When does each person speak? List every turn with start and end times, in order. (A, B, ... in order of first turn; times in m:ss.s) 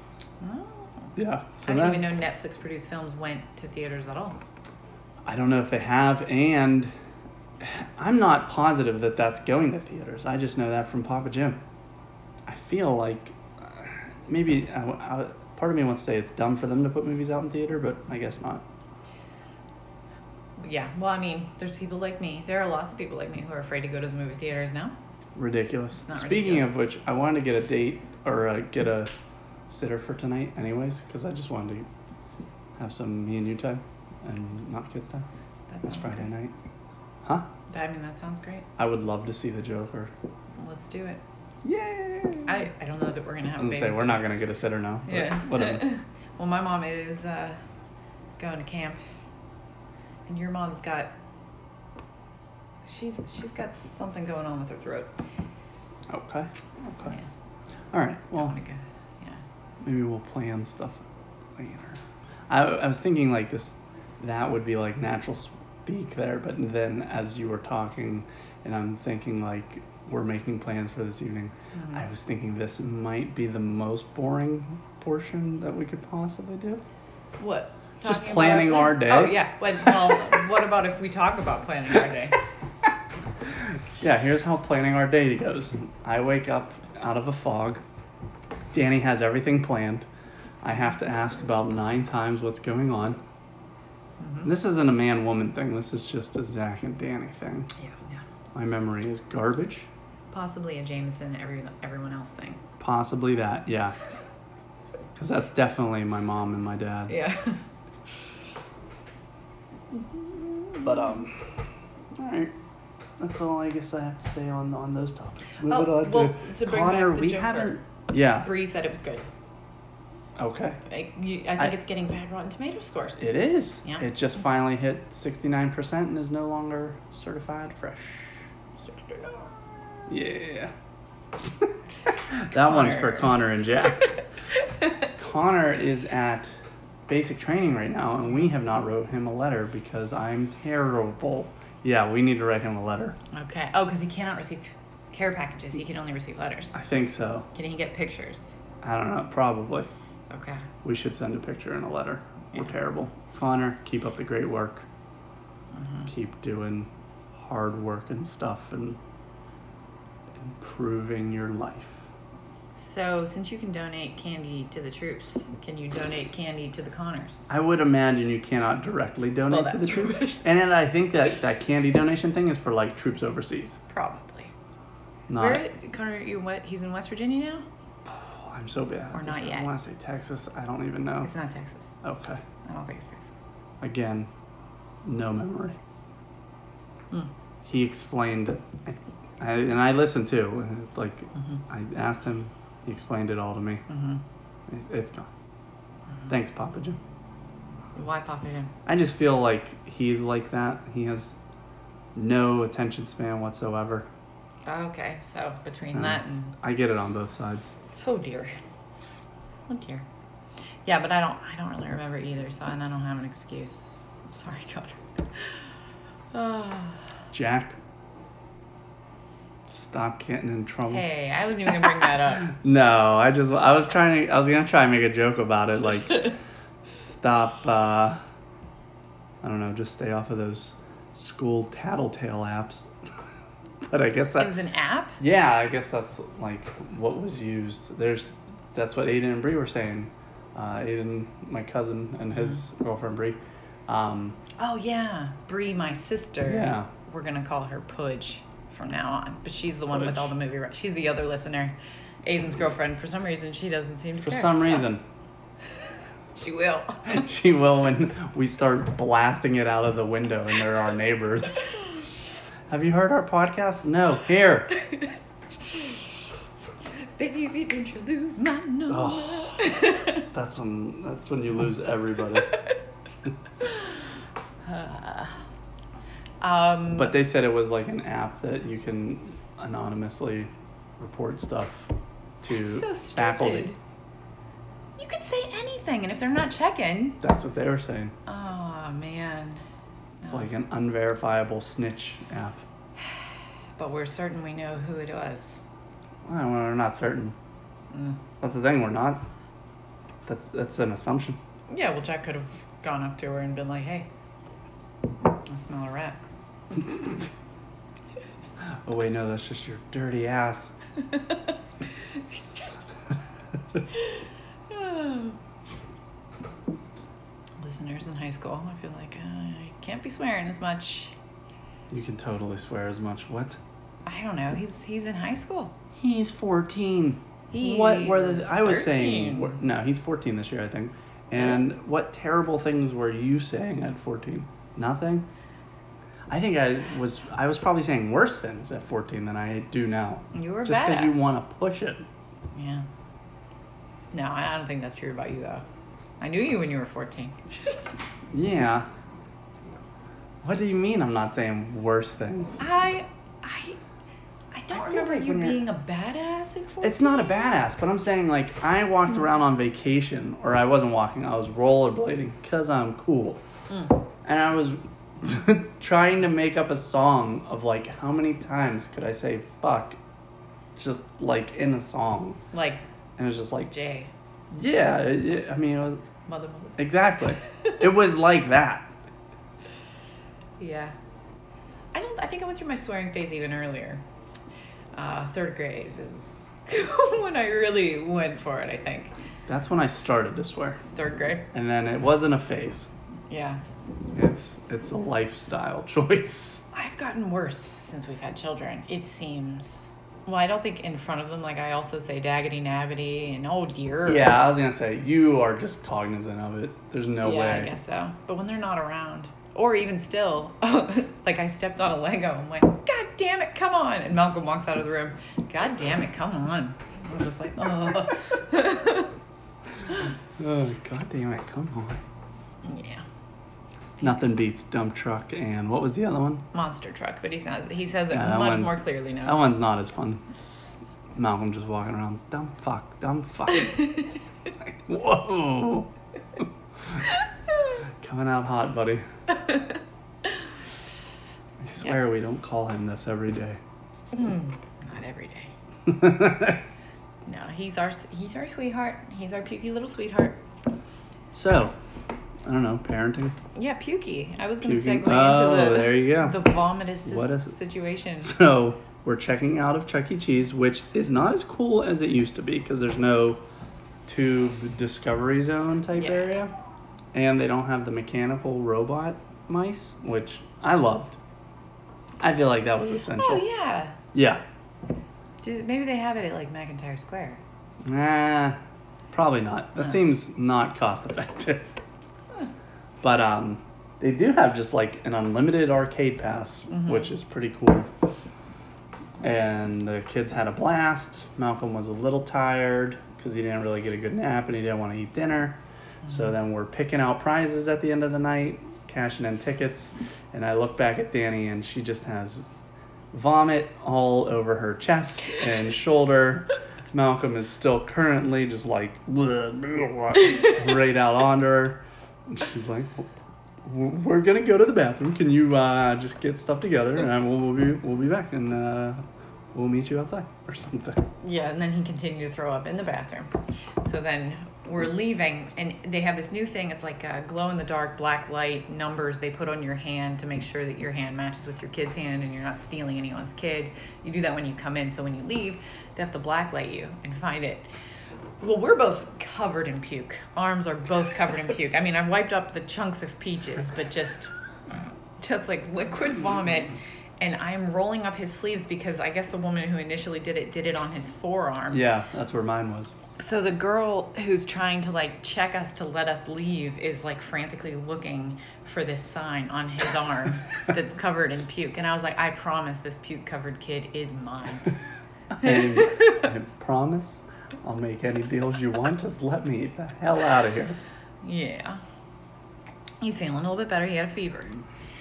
0:00.4-0:01.1 A
0:01.2-0:02.1 B
0:01.6-0:04.4 A
0:05.3-0:06.9 B
0:07.6-0:11.6 B
0:12.5-0:18.6 B
0:20.6-0:24.9 A
0:25.4-0:29.1 B
0:25.9-0:26.7 A
0:29.7-0:31.9 B
0:32.8-0:35.2 B
0:35.7-0:36.3 A
0:35.8-0:36.5 B
0:37.7-0:38.6 A
0:38.8-0:40.1 B
0:40.6-0:41.2 A
0:41.6-0:42.6 B
0:42.4-0:44.2 A
0:43.5-0:45.9 B
0:45.0-0:47.6 A
0:48.4-0:49.0 A
0:50.3-0:51.1 A
0:52.8-0:55.2 A
0:56.1-0:57.1 B
0:57.9-0:58.5 B
0:58.4-0:59.4 A
0:59.8-1:01.0 B
1:01.6-1:16.8 B
1:11.8-1:12.0 A
1:17.4-1:22.4 A
1:18.0-1:19.9 B
1:24.0-1:27.8 B
1:28.7-1:30.0 B
1:30.6-1:33.2 B
1:34.2-1:34.5 A
1:34.4-1:37.7 B
1:37.8-1:38.2 A
1:38.5-1:39.9 B
1:40.3-1:42.6 A
1:42.8-1:44.0 B
1:45.2-1:47.2 B
1:47.1-1:47.6 A
1:50.8-1:51.4 B
1:52.2-1:52.5 B
1:53.2-1:58.5 B
1:55.6-1:57.8 A
1:58.4-1:59.3 A
2:00.4-2:00.8 B
2:00.9-2:03.3 A
2:03.2-2:08.4 B
2:08.8-2:10.1 A
2:10.1-2:10.7 B
2:12.3-2:14.2 B
2:12.5-2:14.0 A
2:14.5-2:15.1 A
2:15.2-2:16.5 B
2:17.1-2:23.2 B
2:23.3-2:26.8 A
2:26.7-2:27.5 B
2:27.5-2:28.5 A
2:28.8-2:29.9 B
2:30.3-2:30.7 A
2:30.8-2:34.9 B
2:35.7-2:36.1 A
2:36.0-2:39.0 B
2:40.4-2:42.0 B
2:42.7-2:47.5 A
2:47.5-2:53.8 B
2:49.5-2:50.4 A
2:53.9-2:54.5 A
2:55.3-2:55.6 B
2:55.4-2:57.6 A
2:58.0-3:01.3 B
2:59.1-2:59.7 A
3:01.2-3:01.9 A
3:02.0-3:02.4 B
3:02.6-3:03.3 A
3:03.8-3:04.3 B
3:05.0-3:05.8 B
3:07.6-3:13.8 B
3:13.9-3:14.2 A
3:14.7-3:15.3 B
3:16.3-3:17.0 B
3:17.9-3:18.7 A
3:18.9-3:21.4 B
3:22.1-3:24.1 B
3:24.6-3:26.5 A
3:25.9-3:27.7 B
3:27.9-3:28.6 A
3:29.7-3:30.0 A
3:30.8-3:35.7 A
3:36.3-3:37.0 A
3:37.3-3:37.8 B
3:39.7-3:41.0 B
3:40.9-3:42.5 A
3:42.4-3:46.4 B
3:47.0-3:48.2 B
3:49.4-3:52.9 B
3:53.9-3:54.5 B
3:54.4-3:55.2 A
3:55.2-4:04.4 B
4:04.6-4:14.9 A
4:06.4-4:06.9 B
4:09.9-4:10.3 B
4:14.2-4:15.0 B
4:16.4-4:17.2 A
4:17.0-4:21.7 B
4:22.7-4:24.8 B
4:27.2-4:30.3 A
4:28.9-4:32.6 B
4:34.6-4:35.4 A
4:36.4-4:37.2 A
4:37.0-4:41.9 B
4:42.4-4:43.8 B
4:42.5-4:43.8 A
4:45.0-4:47.2 A
4:47.2-4:48.1 B
4:48.2-4:49.6 A
4:50.2-4:50.5 A
4:50.2-4:52.6 B
4:53.8-4:55.6 A
4:56.2-4:57.4 B
4:57.9-4:58.2 A
4:58.4-4:59.2 B
5:00.2-5:01.4 B
5:01.7-5:04.1 A
5:05.4-5:06.2 A
5:08.9-5:10.7 B
5:11.1-5:11.5 A
5:14.7-5:15.4 A
5:17.6-5:21.1 A
5:21.9-5:23.6 B
5:24.0-5:25.8 A
5:26.0-5:35.3 B
5:27.5-5:29.6 A
5:36.3-5:42.0 B
5:40.3-5:41.2 A
5:42.5-5:42.9 A
5:44.1-5:45.6 A
5:46.2-5:47.4 A
5:48.3-5:48.9 B
5:50.4-5:52.6 B
5:52.6-5:53.8 A
5:54.5-5:57.6 A
5:54.7-5:55.6 B
5:56.8-6:03.4 B
6:03.7-6:04.0 A
6:04.2-6:10.0 B
6:10.8-6:12.4 B
6:12.5-6:12.8 A
6:13.2-6:13.7 B
6:13.7-6:14.1 A
6:14.5-6:16.0 B
6:16.2-6:16.8 A
6:16.8-6:18.9 B
6:20.6-6:20.9 A
6:21.9-6:24.0 A
6:24.9-6:29.1 A
6:29.5-6:30.8 B
6:30.9-6:31.5 A
6:31.5-6:32.9 B
6:33.3-6:33.6 A
6:34.1-6:36.7 B
6:36.7-6:44.3 A
6:44.0-6:47.7 B
6:47.2-6:59.1 A
7:00.4-7:02.0 B
7:02.6-7:03.0 A
7:04.0-7:06.4 B
7:06.5-7:09.4 A
7:08.1-7:10.2 B
7:11.2-7:13.9 B
7:14.7-7:16.4 B
7:18.0-7:19.0 B
7:19.3-7:19.7 A
7:21.6-7:23.6 B
7:24.1-7:25.5 A
7:25.9-7:26.6 B
7:27.2-7:30.4 A
7:31.3-7:31.8 B
7:32.4-7:33.4 B
7:33.5-7:38.4 A
7:34.6-7:37.5 B
7:38.2-7:43.4 B
7:44.1-7:46.5 B
7:46.0-7:46.4 A
7:47.1-7:51.2 B
7:52.2-7:53.5 B
7:53.1-7:54.0 A
7:54.1-7:54.4 B
7:55.4-7:57.4 A
7:57.8-7:58.6 B
7:59.1-8:01.7 B
8:03.0-8:07.9 B
8:06.7-8:07.1 A
8:09.2-8:22.4 B
8:23.1-8:33.1 B
8:33.6-8:39.0 B
8:39.5-8:41.0 B
8:41.2-8:57.7 A
8:58.4-9:04.3 A
9:05.2-9:11.8 A
9:11.7-9:12.9 B
9:13.2-9:24.7 A
9:25.4-9:30.8 B
9:25.4-9:25.9 A
9:31.2-9:31.8 A
9:33.0-9:34.6 A